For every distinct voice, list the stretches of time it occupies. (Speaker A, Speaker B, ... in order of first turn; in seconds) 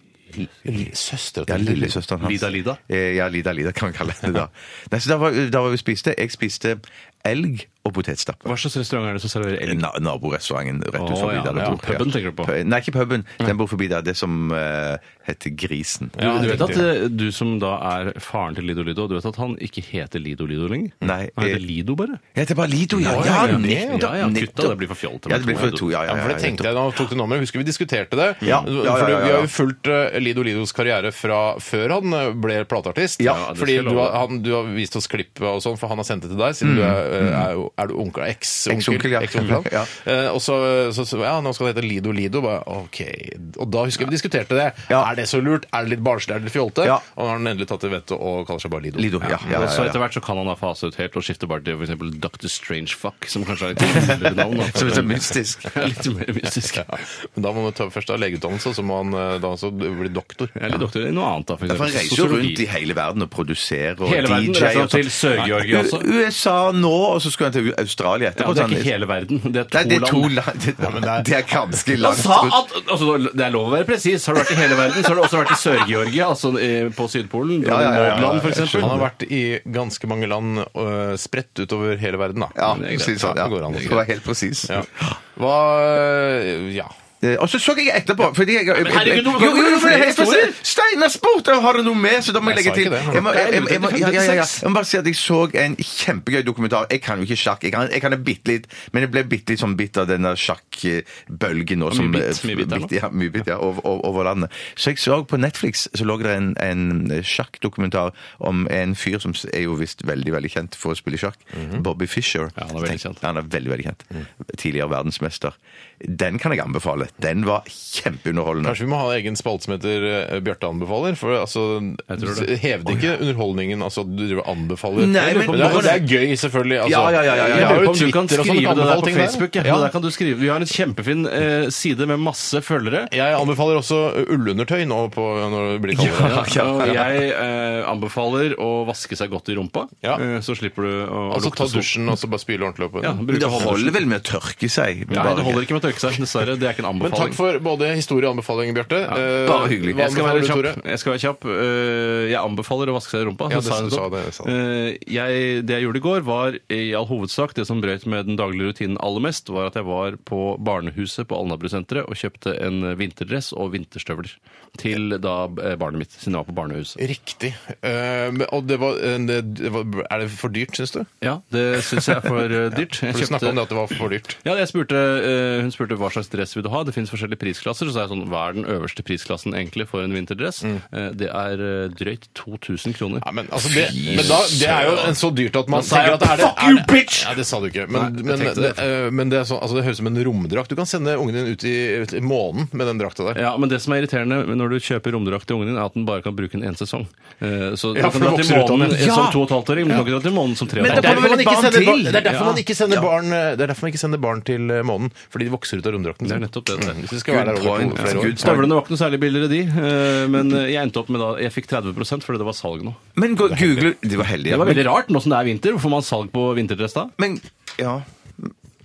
Speaker A: 0.4-2.0, 16.2-16.9, 23.0-24.1, 26.1-49.4, 56.8-60.8, 70.8-71.3, 78.8-84.0, 84.7-86.9, 92.4-93.3, 111.5-111.8, 118.6-129.9, 133.1-136.4, 141.3-143.7, 147.0-150.8, 153.5-154.6, 167.0-171.1, 173.1-174.4, 183.2-193.4, 197.9-199.0, 200.9-208.7, 213.5-213.9
Speaker B: 1.5-8.5, 9.6-16.8, 21.0-21.6, 22.4-26.7, 28.4-29.5, 36.6-37.5, 38.7-39.9, 49.0-50.0, 53.9-55.9, 61.7-68.9, 69.7-72.6, 77.6-79.0, 82.5-85.2, 87.2-118.8, 125.0-126.1, 126.8-127.9, 135.9-137.1, 143.3-145.7, 149.4-150.0, 183.7-185.1, 198.9-200.1, 200.8-202.4, 207.3-208.7, 213.2-214.9, 217.2-218.5
Speaker C: 2.2-2.8, 8.4-9.8, 11.0-12.5, 16.2-22.2, 23.0-25.9, 33.2-34.2, 49.4-56.9, 60.6-62.6, 64.0-66.1, 68.4-70.3, 72.0-79.1, 82.7-84.0, 88.7-90.6, 93.1-94.6, 101.9-102.9, 112.6-113.2, 122.1-123.0, 125.2-126.0, 127.5-133.1, 136.1-141.9, 143.0-144.0, 145.1-147.4, 149.1-167.0, 171.2-173.6, 174.4-183.3, 184.0-184.4, 185.7-187.3, 187.9-188.8, 193.3-201.4, 202.2-202.6, 206.2-207.0, 208.0-213.0, 214.5-217.1